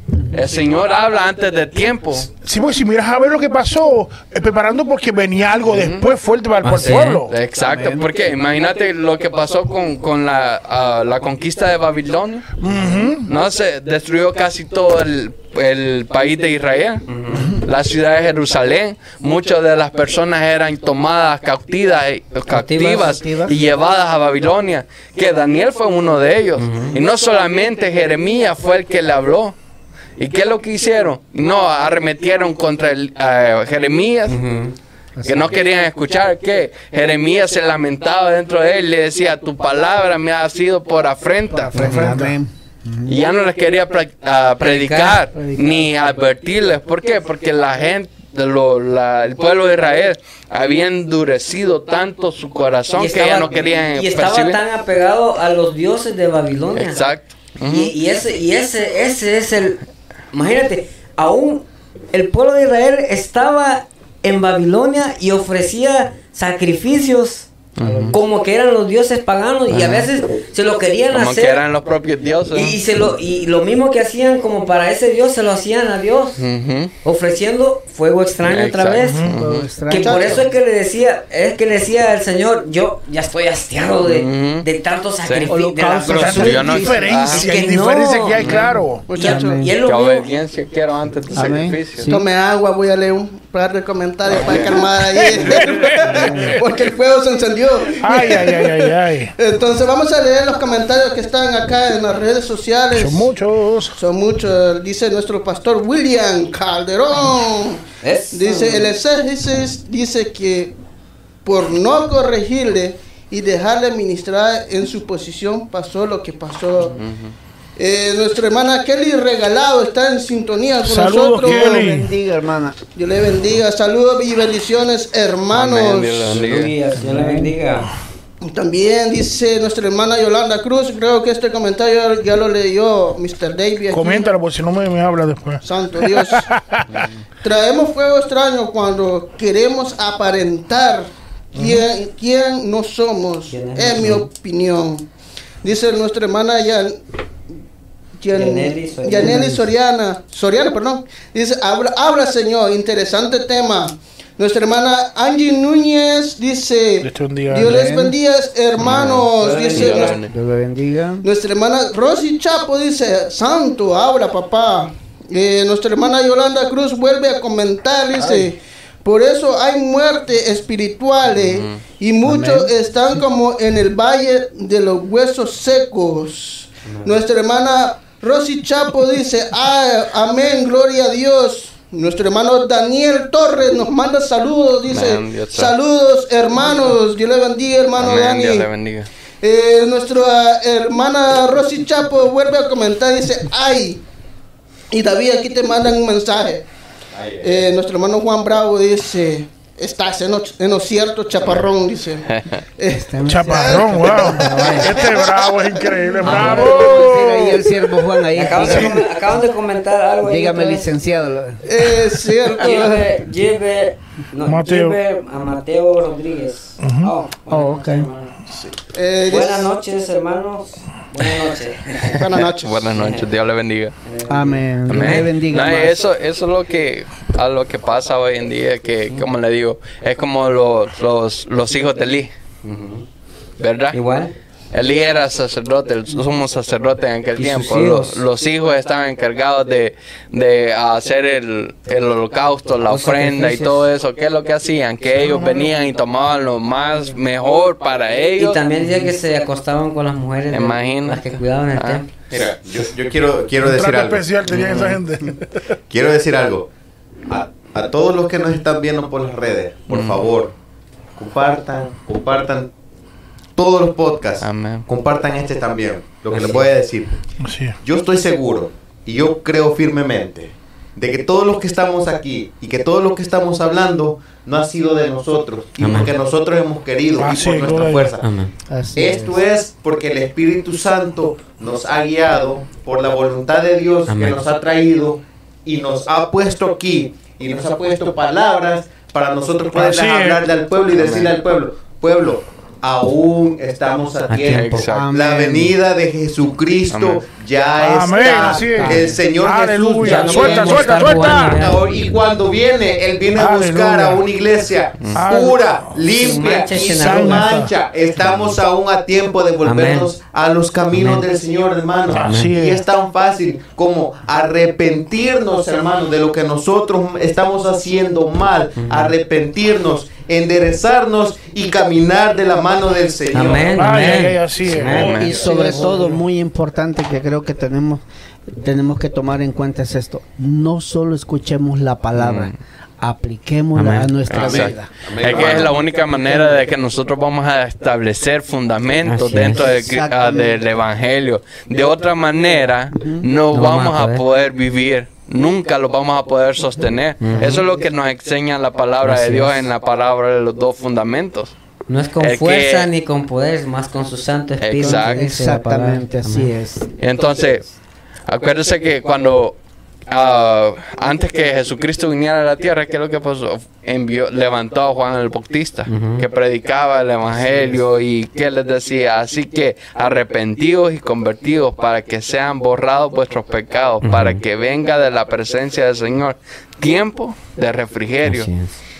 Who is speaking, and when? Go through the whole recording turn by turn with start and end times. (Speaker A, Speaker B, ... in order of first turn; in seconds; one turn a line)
Speaker A: 0.3-2.3
Speaker B: 2.3-7.3
Speaker A: 5.7-6.0
Speaker C: 6.6-7.2
Speaker A: 6.8-12.5
Speaker D: 7.6-8.1
Speaker B: 12.6-13.3
Speaker A: 13.2-29.5
Speaker C: 17.1-17.4
Speaker C: 22.5-23.1
Speaker D: 22.8-23.6
Speaker C: 26.6-26.9
Speaker A: 30.2-34.4
Speaker C: 34.3-34.8
Speaker D: 35.2-35.6
Speaker A: 35.2-42.0
Speaker D: 41.5-43.2
Speaker B: 41.7-42.4
Speaker A: 43.0-54.6
Speaker C: 44.6-45.3
Speaker D: 45.4-45.7
Speaker C: 52.9-57.1
Speaker A: 56.7-57.9
Speaker C: 57.6-59.8
Speaker C: 60.3-67.5
Speaker A: 67.8-68.2
Speaker D: 67.8-68.2
Speaker C: 68.1-71.6
Speaker A: 69.7-70.1
Speaker A: 71.1-72.8
Speaker C: 72.5-76.4
Speaker A: 76.4-76.9
Speaker C: 77.0-79.2
Speaker A: 78.4-79.7
Speaker B: 79.0-79.4
Speaker D: 79.3-80.4
Speaker C: 79.9-88.5
Speaker E: 79.9-80.5
Speaker A: 84.0-84.7
Speaker A: 85.2-85.5
Speaker D: 85.5-87.4
Speaker B: 86.0-89.0
Speaker A: 86.4-87.5
Speaker E: 89.1-89.7
Speaker C: 89.1-90.3
Speaker D: 89.2-89.7
Speaker A: 89.8-92.1
Speaker D: 91.3-92.2
Speaker E: 92.0-103.3
Speaker A: 94.4-94.8
Speaker B: 95.2-96.5
Speaker B: 98.0-99.3
Speaker B: 102.9-104.0
Speaker E: 104.0-110.7
Speaker C: 108.0-108.9
Speaker E: 111.4-117.0
Speaker A: 117.0-117.3
Speaker E: 117.8-121.8
Speaker B: 120.8-122.1
Speaker D: 121.5-122.8
Speaker E: 122.9-126.3
Speaker A: 125.5-126.7
Speaker C: 126.3-127.9
Speaker D: 126.9-127.5
Speaker E: 128.4-134.3
Speaker B: 133.9-137.1
Speaker E: 135.6-136.4
Speaker E: 137.4-145.1
Speaker B: 141.6-141.8
Speaker C: 143.5-144.3
Speaker E: 145.6-147.0
Speaker E: 148.2-160.2
Speaker C: 148.3-149.5
Speaker D: 149.2-149.7
Speaker B: 157.0-157.8
Speaker D: 157.6-158.1
Speaker A: 158.8-160.3
Speaker C: 158.9-160.2
Speaker D: 160.3-161.2
Speaker E: 161.2-188.7
Speaker A: 171.4-171.8
Speaker D: 172.2-172.7
Speaker C: 176.9-177.2
Speaker A: 184.9-185.7
Speaker A: 188.0-189.1
Speaker E: 189.4-194.0
Speaker E: 194.9-196.7
Speaker F: 197.1-197.7
Speaker E: 197.4-206.8
Speaker A: 202.2-202.6
Speaker D: 202.9-205.1
Speaker B: 203.2-207.8
Speaker D: 206.2-209.1
Speaker C: 206.2-207.0
Speaker C: 208.3-210.9
Speaker B: 208.6-209.0
Speaker D: 210.2-211.6
Speaker E: 211.6-213.1
Speaker C: 212.4-218.3
Speaker B: 214.4-215.0
Speaker B: 216.8-217.1
Speaker D: 217.5-218.1
Speaker F: 218.5-218.8
Speaker E: 218.9-219.7
Speaker C: 219.3-222.2
Speaker E: 222.2-222.8
Speaker A: 222.5-223.9
Speaker C: 222.9-223.3
Speaker C: 224.0-225.3
Speaker D: 224.2-226.0
Speaker A: 224.9-232.3
Speaker C: 232.6-233.0
Speaker A: 233.6-234.0
Speaker C: 233.9-234.3
Speaker A: 234.7-248.6
Speaker C: 237.4-238.2
Speaker C: 242.8-243.8
Speaker B: 245.1-245.7
Speaker C: 248.3-252.1
Speaker A: 250.5-252.0
Speaker F: 252.3-254.3
Speaker B: 253.6-255.6
Speaker A: 254.5-255.0
Speaker F: 255.9-256.7
Speaker F: 257.3-260.5
Speaker A: 259.9-260.3
Speaker F: 261.2-262.7
Speaker F: 263.6-267.1
Speaker A: 264.4-264.9
Speaker C: 266.3-266.7
Speaker B: 267.4-267.8
Speaker F: 267.8-278.3
Speaker C: 275.8-276.1
Speaker B: 277.2-278.1
Speaker C: 277.8-278.5
Speaker D: 278.7-279.4
Speaker F: 278.9-324.2
Speaker C: 284.1-284.4
Speaker B: 289.7-290.4
Speaker A: 290.9-291.3
Speaker C: 294.3-294.9
Speaker A: 294.5-295.1
Speaker D: 294.8-295.8
Speaker A: 296.9-297.2
Speaker B: 297.8-301.7
Speaker D: 298.2-299.2
Speaker C: 300.0-301.8
Speaker B: 303.3-304.2
Speaker B: 305.1-306.0
Speaker C: 306.1-307.5
Speaker B: 306.7-307.7
Speaker C: 309.6-310.1
Speaker C: 310.9-311.2
Speaker B: 312.1-312.8
Speaker C: 312.2-312.5
Speaker C: 318.8-319.1
Speaker C: 323.3-325.3
Speaker B: 323.7-325.9
Speaker A: 324.7-325.4
Speaker D: 324.9-335.8
Speaker A: 332.1-332.6
Speaker C: 333.8-334.2
Speaker A: 334.3-351.5
Speaker F: 334.3-335.9
Speaker C: 339.0-339.7
Speaker D: 339.4-340.6
Speaker D: 342.9-343.3
Speaker C: 343.5-344.2
Speaker C: 347.2-347.6
Speaker D: 347.4-347.7
Speaker C: 349.0-349.7
Speaker C: 351.9-356.5
Speaker A: 352.2-352.9
Speaker A: 354.6-355.3
Speaker D: 354.8-356.9
Speaker A: 357.0-357.7
Speaker A: 358.3-359.6
Speaker A: 360.1-378.5
Speaker C: 365.9-366.2
Speaker C: 374.0-374.4
Speaker C: 378.2-378.8